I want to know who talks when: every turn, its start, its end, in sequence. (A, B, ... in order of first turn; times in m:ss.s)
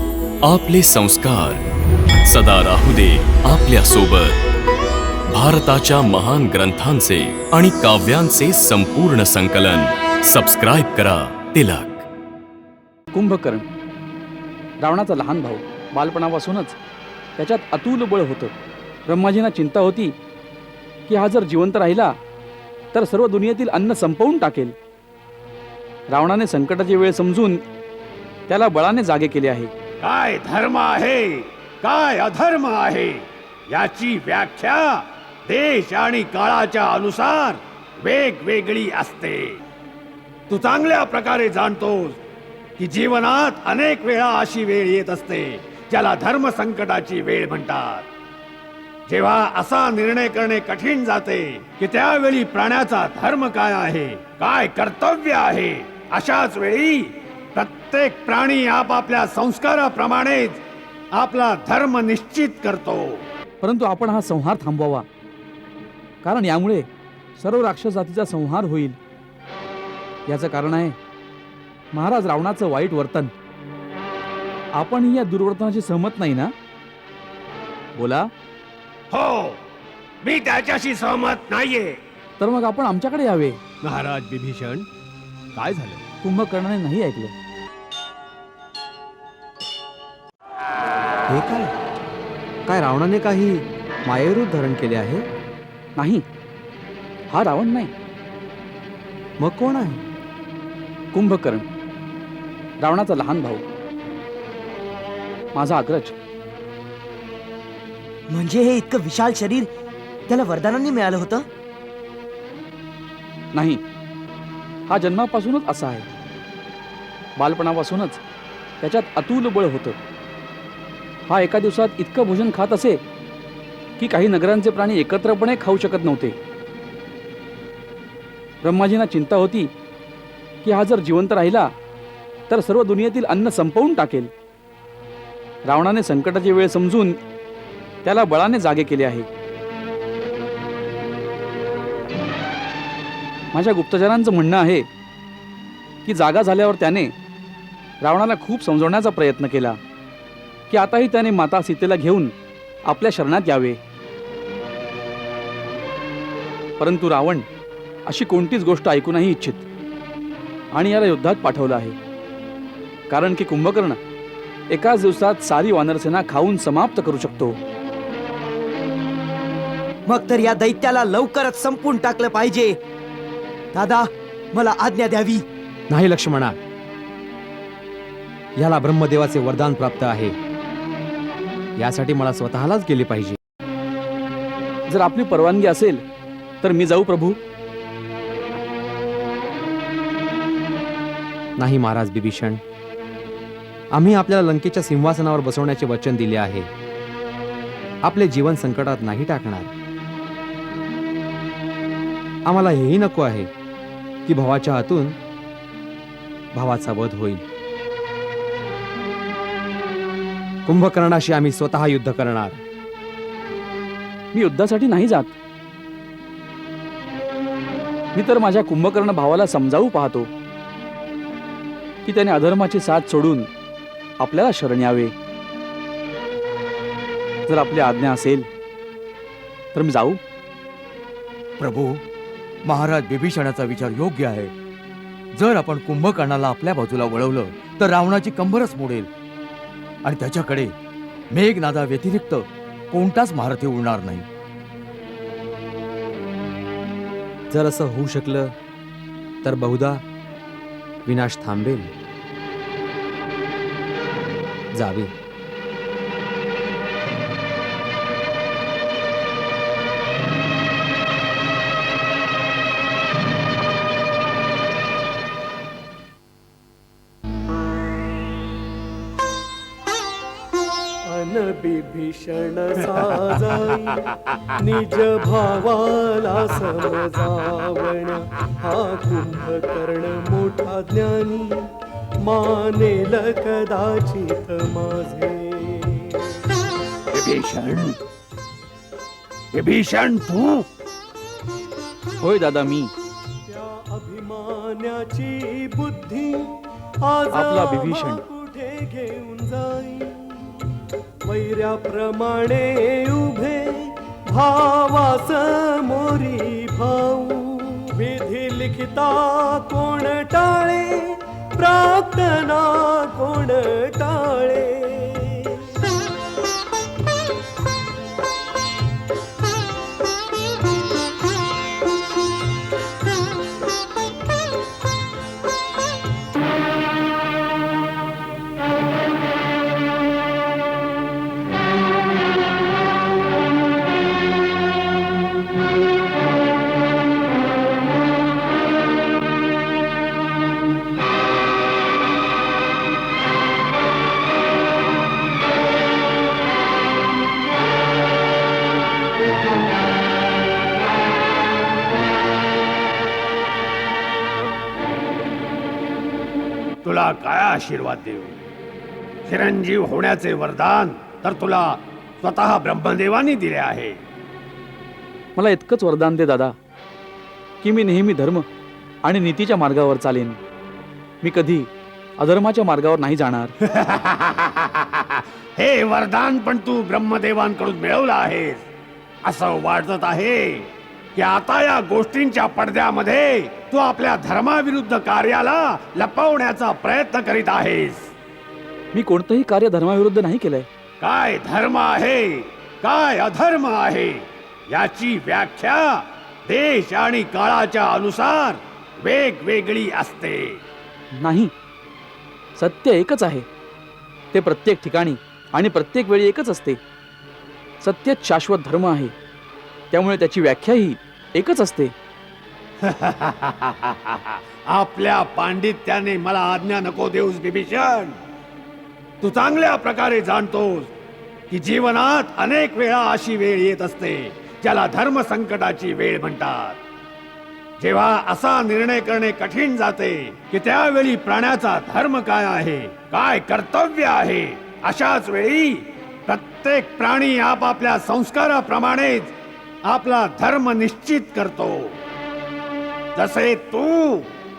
0:00.4-0:01.6 A
0:02.2-0:04.4 A
0:05.3-0:12.1 A
0:13.1-0:13.6 B
0:14.8-0:16.8 B
0:17.4-0:18.5 B
0:19.1-0:20.1 B
0:21.1-0:22.1 B
0:22.9-0:24.7 B
0:26.1-0:27.6 B
0:28.5-0:29.7 B
0:30.0-0:39.6 C
0:40.5-0:42.2 C
0:42.8-0:48.1 C
0:49.1-1:00.6 C
1:01.2-1:03.2 C
1:03.6-1:05.0 B
1:06.2-1:06.8 B
1:07.4-1:09.0 B
1:10.3-1:11.0 B
1:11.9-1:13.3 B
1:14.8-1:16.5 B
1:18.0-1:18.3 B
1:19.1-1:19.6 C
1:20.2-1:22.0 C
1:22.4-1:23.6 B
1:23.8-1:24.8 C
1:25.6-1:26.0 C
1:26.2-1:27.3 B
1:31.3-1:31.7 D
1:32.6-1:35.2 D
1:36.0-1:36.2 B
1:37.3-1:37.9 B
1:39.4-1:40.0 D
1:41.1-1:41.6 B
1:42.8-1:43.6 B
1:45.5-1:46.1 B
1:48.3-1:49.7 E
1:50.3-1:51.4 E
1:53.5-1:53.8 B
1:54.9-1:56.0 B
1:57.4-1:58.2 B
1:58.8-2:00.0 B
2:01.3-2:03.0 B
2:04.0-2:06.4 B
2:08.6-2:09.7 B
2:10.6-2:11.7 B
2:12.5-2:14.3 B
2:15.6-2:17.2 B
2:18.0-2:19.3 B
2:23.5-2:24.9 B
2:26.0-2:27.1 B
2:28.0-2:29.8 B
2:30.7-2:32.3 B
2:32.8-2:33.8 B
2:36.8-2:37.4 B
2:38.0-2:39.6 B
2:40.7-2:42.0 B
2:43.1-2:44.0 B
2:44.7-2:47.6 B
2:50.1-2:52.8 E
2:53.7-2:55.4 E
2:55.9-2:56.6 D
2:58.6-3:00.3 D
3:01.8-3:03.4 D
3:04.9-3:06.0 B
3:06.6-3:07.4 B
3:11.6-3:12.6 D
3:13.9-3:16.7 D
3:18.0-3:19.7 D
3:22.5-3:23.5 D
3:24.2-3:25.2 D
3:26.5-3:27.4 D
3:30.6-3:32.6 D
3:34.3-3:35.3 B
3:38.1-3:40.3 B
3:42.0-3:43.5 B
3:44.2-3:45.1 B
3:47.5-3:48.5 B
3:49.7-3:50.2 B
3:51.6-3:52.0 F
3:52.6-3:54.5 F
3:55.3-3:59.1 F
4:00.0-4:00.7 F
4:01.3-4:04.3 F
4:07.5-4:08.5 D
4:09.4-4:10.0 D
4:11.0-4:11.9 D
4:14.7-4:15.1 D
4:31.1-4:41.6 G
4:42.2-4:46.4 G
4:47.1-4:48.0 C
4:49.5-4:50.6 C
4:52.2-4:52.9 B
4:53.5-5:15.6 G
4:57.3-4:58.2 B
5:56.8-5:58.4 C
5:59.3-6:04.0 C
6:05.4-6:06.5 B
6:07.6-6:08.4 B
6:09.0-6:10.4 B
6:11.2-6:13.5 B
6:13.6-6:18.6 C
6:19.2-6:28.1 C
6:28.9-6:30.7 B
6:31.0-6:40.6 C
6:41.2-6:41.5 B
6:42.6-6:43.4 B
6:44.3-6:46.8 B
6:47.8-6:49.1 B
6:49.9-6:51.9 B
6:52.8-6:58.2 C
6:59.2-7:00.9 C
7:01.5-7:06.8 C
7:07.8-7:19.3 C
7:19.9-7:22.0 C
7:23.2-7:24.3 C